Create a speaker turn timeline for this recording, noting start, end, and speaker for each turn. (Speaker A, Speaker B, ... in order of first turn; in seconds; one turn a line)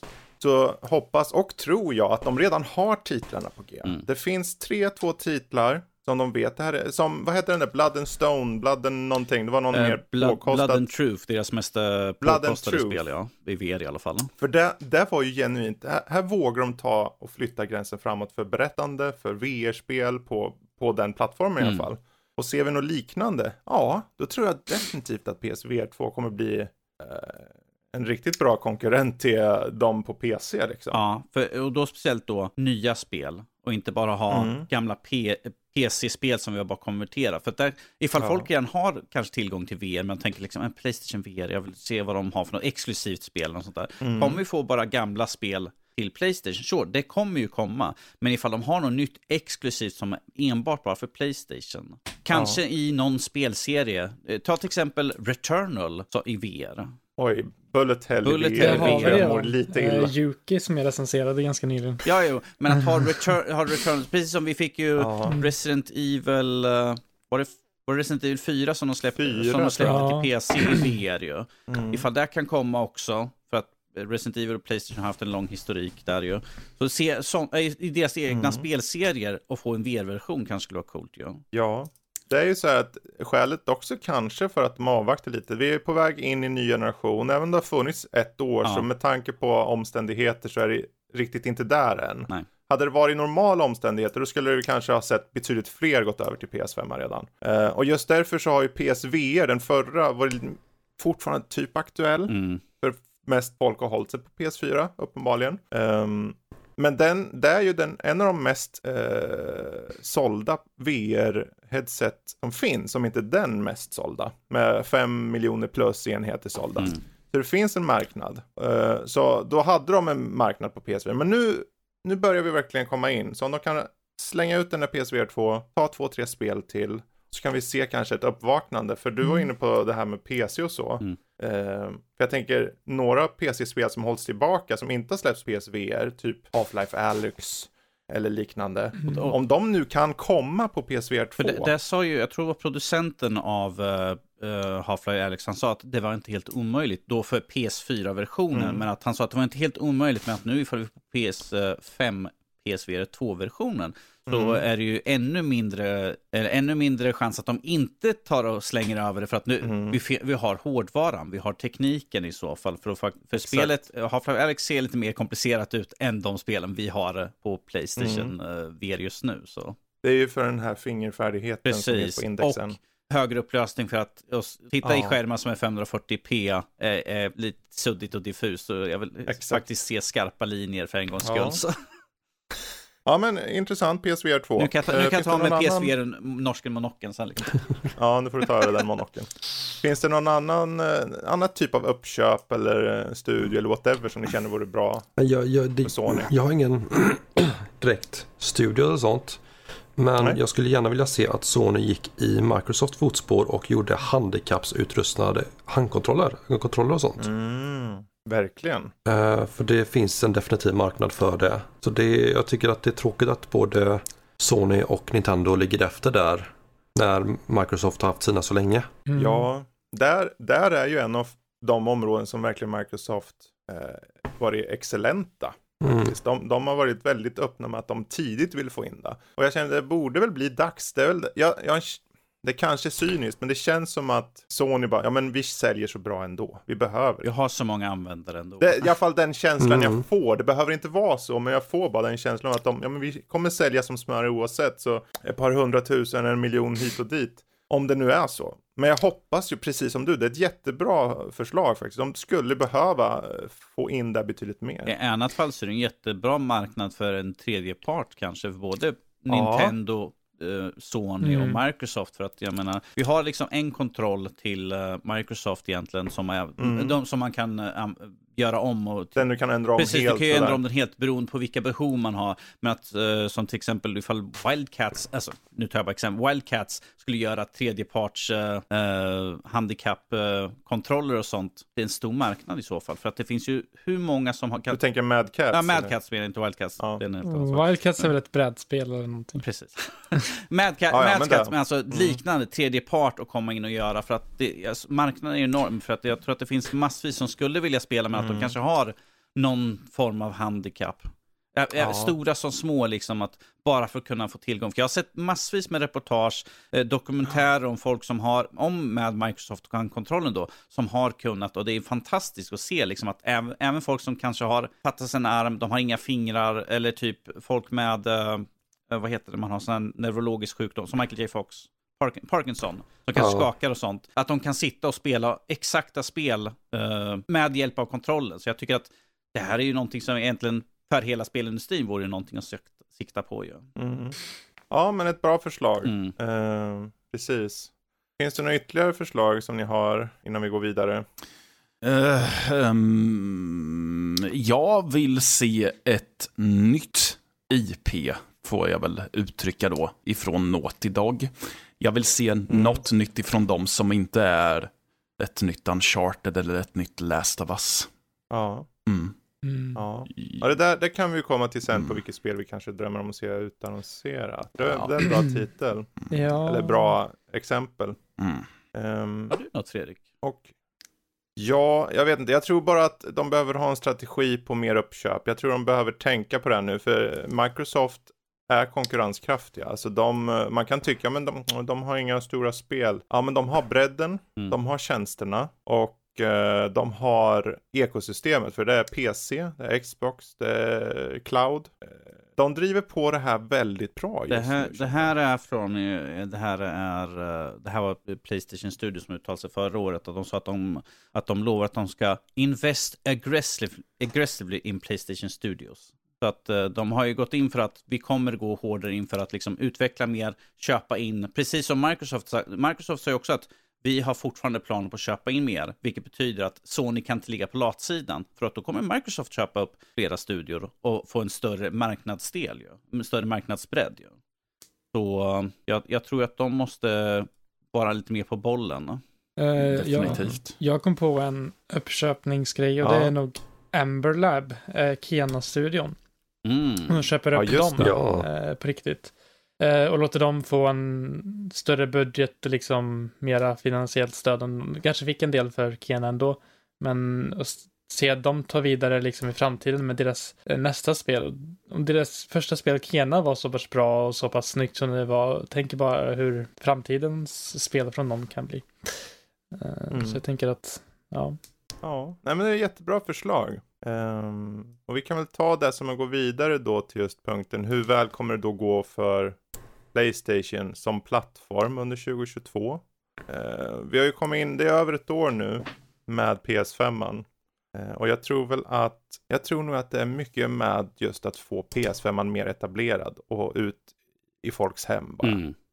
Speaker A: 0.4-10.8
Speaker B: 9.7-14.3
Speaker A: 12.2-13.0
Speaker A: 14.4-31.0
Speaker B: 21.6-21.9
Speaker B: 30.9-56.9
Speaker A: 34.3-34.7
Speaker A: 38.2-38.5
Speaker A: 44.0-44.4
Speaker A: 52.3-52.6
Speaker A: 57.2-60.1
Speaker B: 58.2-59.4
Speaker C: 58.6-62.0
Speaker B: 62.0-81.4
Speaker C: 62.8-63.0
Speaker A: 65.0-65.3
Speaker C: 65.3-65.5
Speaker A: 69.2-70.0
Speaker C: 69.8-70.9
Speaker A: 71.7-72.0
Speaker A: 78.3-78.6
Speaker A: 81.5-141.7
Speaker B: 102.3-102.6
Speaker B: 141.4-169.8
Speaker A: 148.5-148.8
Speaker A: 154.3-154.6
Speaker A: 159.6-160.0
Speaker A: 163.3-163.7
Speaker A: 168.0-168.3
Speaker A: 170.0-172.8
Speaker B: 171.6-181.8
Speaker A: 174.8-175.2
Speaker A: 179.3-179.6
Speaker A: 181.2-181.6
Speaker A: 183.1-185.9
Speaker B: 184.6-187.6
Speaker A: 187.9-189.3
Speaker A: 189.8-195.1
Speaker D: 195.2-199.4
Speaker A: 195.8-196.3
Speaker D: 200.0-207.3
Speaker A: 207.2-208.9
Speaker D: 209.1-218.9
Speaker C: 219.1-219.4
Speaker A: 219.2-237.3
Speaker D: 225.8-226.1
Speaker B: 237.2-238.9
Speaker A: 238.6-254.9
Speaker D: 239.6-240.0
Speaker B: 254.8-269.2
Speaker A: 259.3-259.7
Speaker C: 261.2-261.6
Speaker A: 266.6-267.0
Speaker A: 269.1-270.6
Speaker B: 269.8-284.8
Speaker A: 284.7-285.9
Speaker B: 285.5-288.1
Speaker C: 287.2-289.4
Speaker B: 289.4-333.7
Speaker A: 290.9-292.2
Speaker A: 298.1-298.5
Speaker A: 301.8-302.1
Speaker D: 323.1-323.5
Speaker A: 333.8-334.1
Speaker A: 334.7-341.0
Speaker B: 335.8-336.1
Speaker E: 341.8-357.9
Speaker A: 352.5-352.8
Speaker A: 358.3-358.7
Speaker E: 358.9-359.1
Speaker C: 359.4-359.8
Speaker A: 359.8-368.0
Speaker E: 360.1-360.4
Speaker E: 364.6-364.9
Speaker C: 365.0-365.4
Speaker C: 366.1-367.0
Speaker E: 368.2-368.4
Speaker A: 368.7-369.3
Speaker B: 369.3-370.0
Speaker A: 370.2-370.5
Speaker A: 371.4-391.8
Speaker A: 392.4-395.1
Speaker B: 394.3-424.1
Speaker B: 424.9-429.0
Speaker C: 429.4-435.9
Speaker E: 429.6-430.5
Speaker A: 432.8-433.1
Speaker B: 436.4-437.0
Speaker C: 436.9-459.0
Speaker A: 437.3-438.0
Speaker D: 437.8-438.3
Speaker C: 459.5-461.4
Speaker A: 459.9-460.2
Speaker A: 461.8-469.4
Speaker A: 469.9-483.9
Speaker A: 484.4-485.4
Speaker B: 485.2-485.5